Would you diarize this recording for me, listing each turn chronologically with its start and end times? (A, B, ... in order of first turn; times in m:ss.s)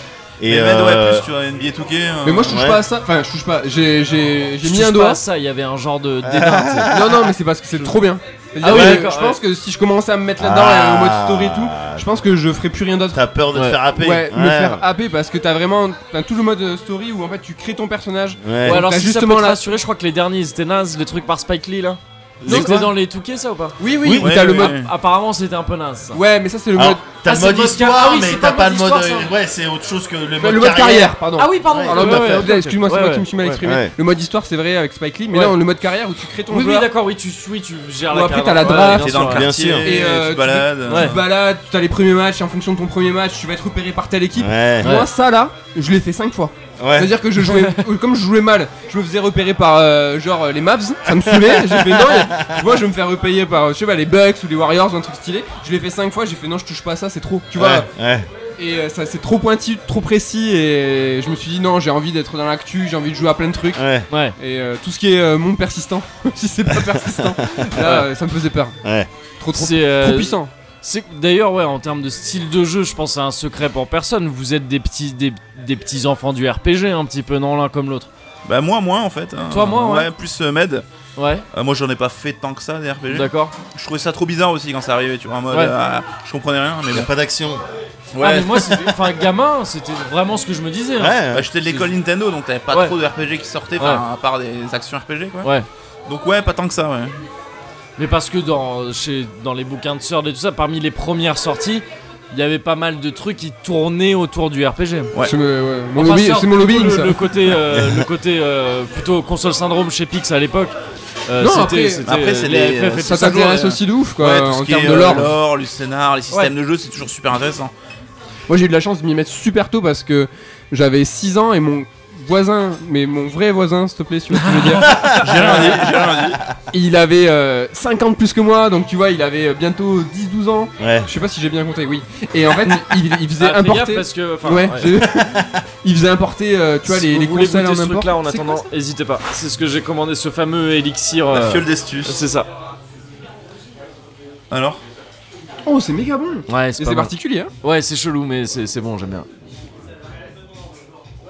0:00.4-0:01.3 A
0:00.5-0:02.7 B
0:02.2-0:05.2 C
0:02.5-0:02.8 A
0:04.6-0:06.9 D
0:06.2-0:07.3 A
0:06.9-0:13.2 C
0:08.6-0:09.4 D
0:08.6-0:09.1 A
0:10.4-0:12.1 A
0:13.1-0:14.8 A
0:13.9-0:19.7 C
0:18.4-0:18.8 A
0:18.6-0:23.8 D
0:22.4-0:22.9 A
0:23.8-0:24.7 C
0:24.0-0:24.3 A
0:24.2-0:24.9 B
0:24.3-0:26.2 D
0:26.1-0:27.0 C
0:26.7-0:32.5 A
0:27.2-0:29.3 D
0:30.4-0:36.9 C
0:31.4-0:33.6 D
0:33.6-0:33.9 A
0:35.3-0:35.6 D
0:36.5-0:39.5 D
0:38.1-0:39.3 C
0:38.6-0:41.3 B
0:39.0-0:39.9 A
0:39.8-0:57.8 C
0:40.9-0:41.2 D
0:44.3-0:45.0 A
0:46.8-0:47.1 A
0:47.4-0:47.8 D
0:51.1-0:52.8 A
0:57.5-0:58.3 A
0:58.6-1:03.8 C
1:03.7-1:04.1 A
1:04.1-1:04.3 D
1:04.4-1:08.8 C
1:06.7-1:08.0 A
1:07.8-1:08.1 D
1:08.8-1:09.1 A
1:09.4-1:10.5 C
1:09.5-1:18.1 D
1:18.4-1:20.8 B
1:19.5-1:20.1 D
1:21.2-1:21.4 D
1:21.5-1:27.1 B
1:23.1-1:23.5 D
1:26.9-1:27.6 A
1:28.1-1:29.0 B
1:28.2-1:31.8 D
1:31.0-1:31.5 A
1:31.3-1:35.5 B
1:32.7-1:32.9 D
1:33.8-1:34.0 D
1:36.1-1:37.1 B
1:38.0-1:45.1 D
1:45.2-1:47.2 C
1:46.0-1:50.8 D
1:47.7-1:48.0 A
1:51.3-1:53.5 D
1:51.4-1:52.0 C
1:52.0-1:57.7 B
1:52.5-1:52.9 A
1:53.1-1:55.3 C
1:58.5-2:05.7 C
2:04.3-2:05.8 D
2:04.8-2:05.6 A
2:05.2-2:06.4 B
2:06.7-2:18.6 C
2:10.8-2:11.1 A
2:13.4-2:14.9 D
2:14.8-2:15.6 A
2:16.9-2:22.5 D
2:21.3-2:22.2 B
2:24.5-2:24.8 B
2:25.6-2:27.5 C
2:26.5-2:29.3 D